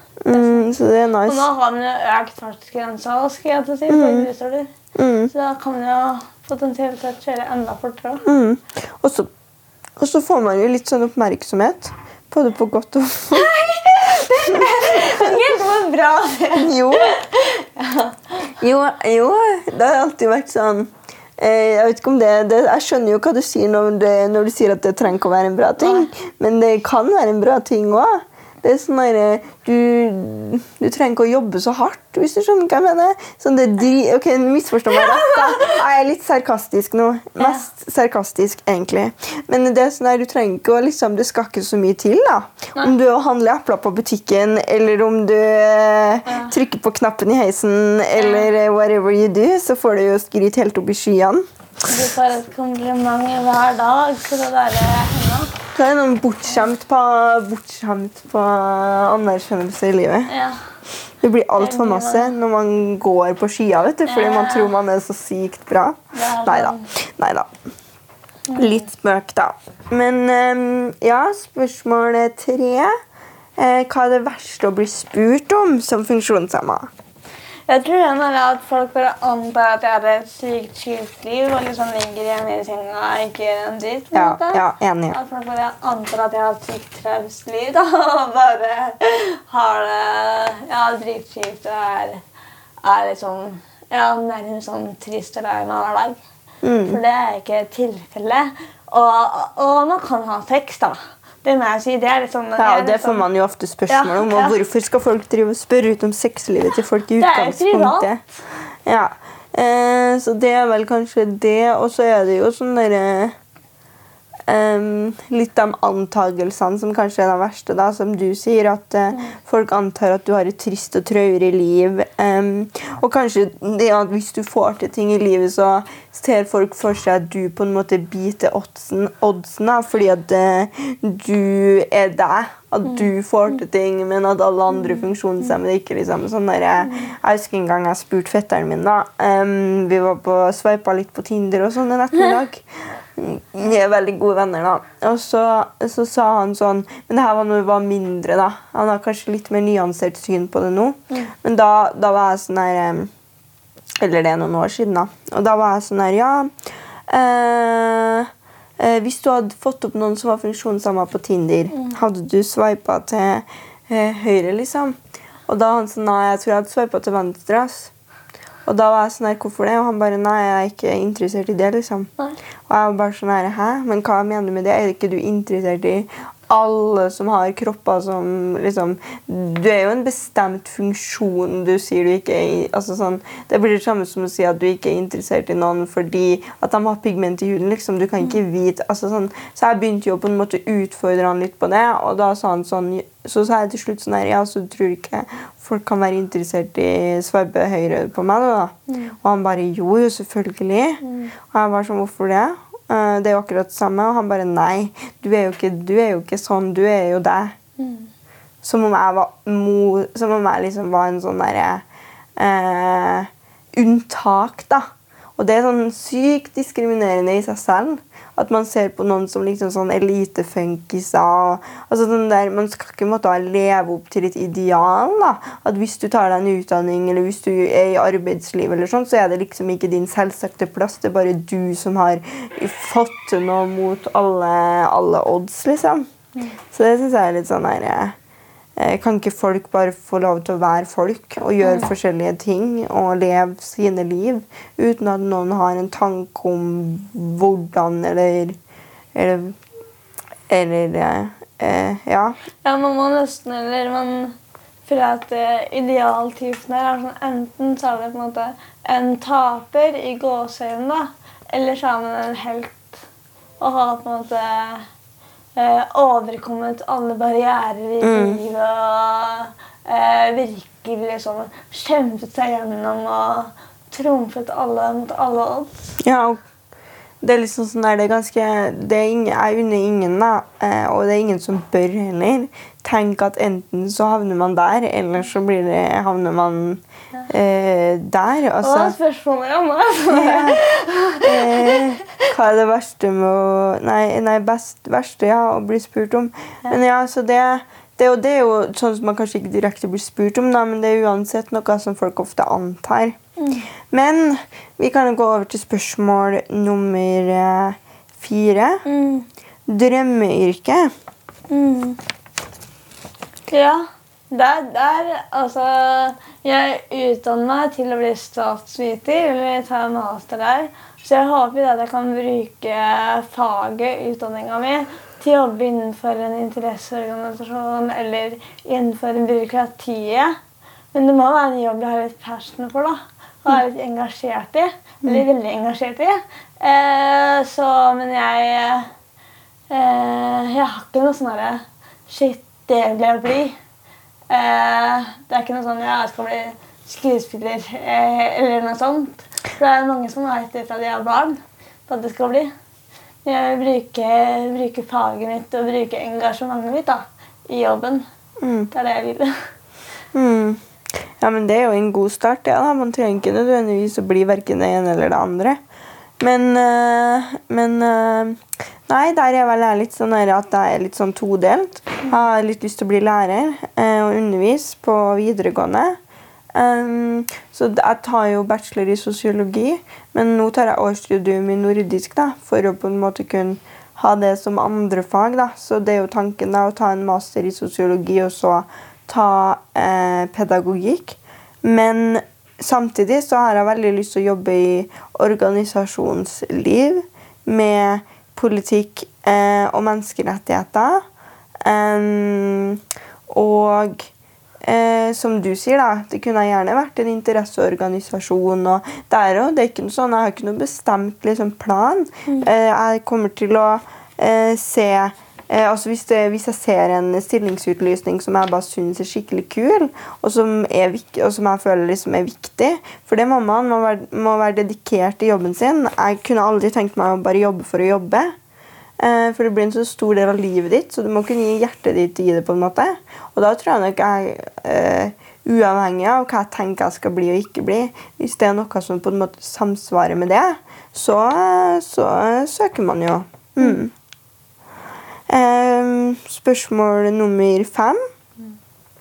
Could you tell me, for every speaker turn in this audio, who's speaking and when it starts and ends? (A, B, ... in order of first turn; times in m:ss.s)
0:00.2-0:01.5 A
0:00.3-0:00.6 B
0:01.2-0:04.7 B
0:03.9-0:04.3 A
0:05.0-0:05.3 A
0:05.3-0:08.2 B
0:08.2-0:09.3 A
0:10.0-0:13.5 A
0:13.3-0:18.4 B
0:14.0-0:15.4 A
0:16.6-0:17.2 A
0:18.5-0:51.5 A
0:25.8-0:26.1 B
0:34.9-0:35.8 B
0:37.4-0:37.6 B
0:46.3-0:46.5 B
0:48.2-0:48.5 B
0:51.9-0:55.5 B
0:55.7-1:00.3 A
1:00.3-1:00.6 B
1:01.2-1:07.5 A
1:01.6-1:02.4 B
1:04.1-1:04.7 B
1:06.1-1:06.9 B
1:08.5-1:08.8 B
1:08.5-1:12.9 A
1:13.6-1:16.9 A
1:17.7-1:32.2 B
1:24.1-1:25.2 A
1:32.8-1:36.2 B
1:36.6-1:37.0 A
1:36.9-1:43.2 B
1:42.6-1:48.2 A
1:43.9-1:44.6 B
1:47.2-1:48.1 B
1:48.8-1:53.4 A
1:54.5-2:33.1 A
2:14.7-2:15.5 B
2:16.8-2:17.1 B
2:34.0-2:36.5 A
2:37.1-2:47.9 A
2:48.6-2:52.1 A
2:52.7-3:27.6 A
3:18.9-3:19.1 B
3:21.0-3:21.3 B
3:27.8-3:28.1 B
3:28.6-3:31.8 A
3:32.4-3:34.8 A
3:35.4-3:56.1 A
3:56.7-3:58.1 A
3:58.8-4:08.6 A
4:01.6-4:01.9 B
4:09.1-4:09.6 A
4:10.5-4:12.4 A
4:12.6-4:23.0 B
4:23.6-4:24.8 B
4:25.5-4:35.8 B
4:28.0-4:28.4 A
4:36.0-4:36.4 A
4:37.2-4:48.9 A
4:48.6-4:51.8 B
4:50.1-4:50.6 A
4:51.2-5:03.2 A
5:03.9-5:08.8 A
5:08.8-5:09.2 B
5:09.7-5:10.9 A
5:11.5-5:12.0 B
5:13.5-5:30.4 B
5:30.9-5:38.9 B
5:39.7-5:43.6 B
5:44.3-5:52.5 B
5:53.2-5:58.0 B
5:58.4-5:58.7 A
5:58.7-5:59.3 B
6:00.1-6:05.6 A
6:06.2-6:16.0 A
6:16.5-6:41.0 A
6:41.6-6:44.1 A
6:44.6-7:08.3 A
7:09.0-7:23.9 A
7:25.3-7:28.0 A